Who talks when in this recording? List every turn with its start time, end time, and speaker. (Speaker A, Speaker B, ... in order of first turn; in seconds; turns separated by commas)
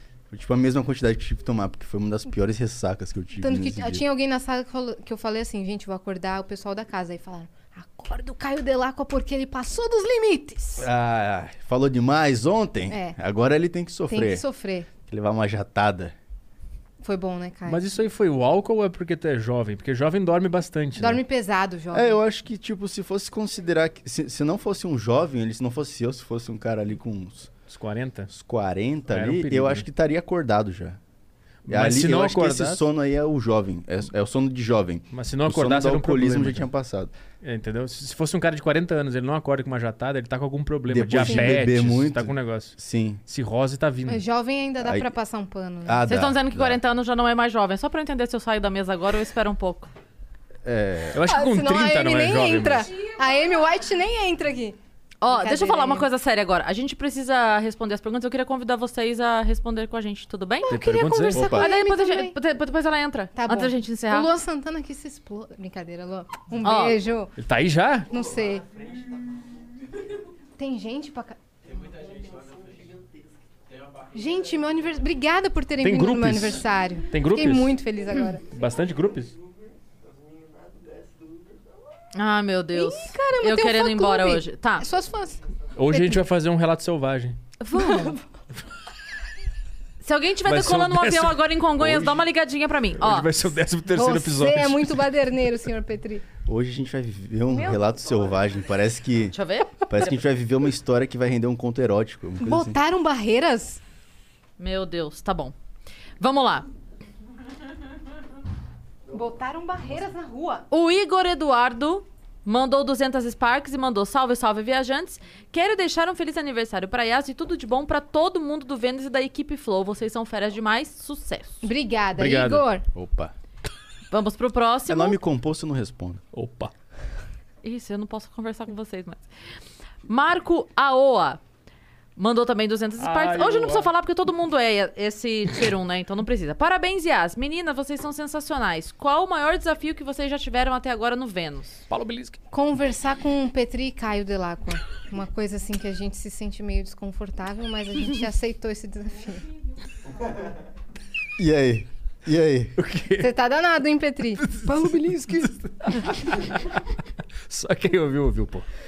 Speaker A: 0.3-4.0, Speaker B: 3.4-10.9, Speaker A: 10.8-14.4, Speaker B: 12.9-13.2, Speaker B: 14.1-14.9, Speaker A: 15.0-16.1, Speaker B: 17.0-17.8, Speaker C: 17.7-21.2, Speaker B: 20.9-22.2, Speaker A: 21.9-27.5, Speaker C: 27.7-28.3, Speaker A: 28.3-31.0, Speaker C: 29.1-29.9, Speaker C: 31.7-32.8, Speaker A: 31.7-37.1, Speaker C: 35.1-36.7, Speaker C: 37.4-42.7, Speaker A: 40.9-43.2, Speaker B: 41.3-41.6, Speaker C: 43.3-44.2, Speaker B: 44.0-46.0, Speaker A: 44.8-45.1, Speaker A: 45.8-46.8, Speaker D: 46.1-49.9, Speaker A: 50.6-51.1, Speaker C: 51.1-52.9, Speaker B: 51.2-54.8, Speaker D: 55.2-60.8, Speaker B: 55.3-56.1, Speaker B: 60.7-62.4, Speaker C: 60.7-61.7, Speaker D: 61.3-64.3, Speaker B: 63.4-67.3, Speaker D: 66.6-67.0, Speaker C: 67.4-68.1, Speaker B: 68.1-68.6, Speaker B: 70.6-71.4, Speaker B: 74.1-78.5, Speaker C: 75.8-77.8, Speaker C: 78.5-79.3, Speaker D: 82.1-84.8, Speaker B: 82.7-86.2, Speaker C: 85.8-87.4, Speaker D: 87.7-88.2, Speaker B: 87.7-88.2, Speaker D: 90.0-93.3, Speaker C: 90.5-91.4, Speaker A: 91.8-92.1, Speaker C: 93.0-95.0, Speaker B: 93.9-96.2, Speaker A: 96.4-99.3, Speaker B: 97.5-97.8, Speaker D: 99.3-99.8, Speaker A: 99.9-102.8, Speaker B: 102.4-103.8, Speaker D: 104.6-105.5, Speaker D: 106.2-106.7, Speaker B: 109.1-110.6, Speaker D: 110.7-121.7, Speaker B: 121.6-122.8, Speaker C: 122.2-122.6, Speaker A: 122.9-123.3, Speaker D: 124.1-125.2, Speaker A: 124.9-126.2, Speaker C: 126.3-126.7, Speaker D: 127.6-129.3, Speaker D: 130.1-131.4, Speaker D: 132.2-141.8, Speaker C: 133.0-133.9, Speaker C: 141.9-142.4, Speaker B: 142.5-149.4, Speaker A: 151.4-152.7, Speaker C: 152.8-153.3, Speaker B: 153.2-154.4, Speaker C: 154.4-156.7, Speaker A: 154.7-155.5, Speaker C: 157.5-158.7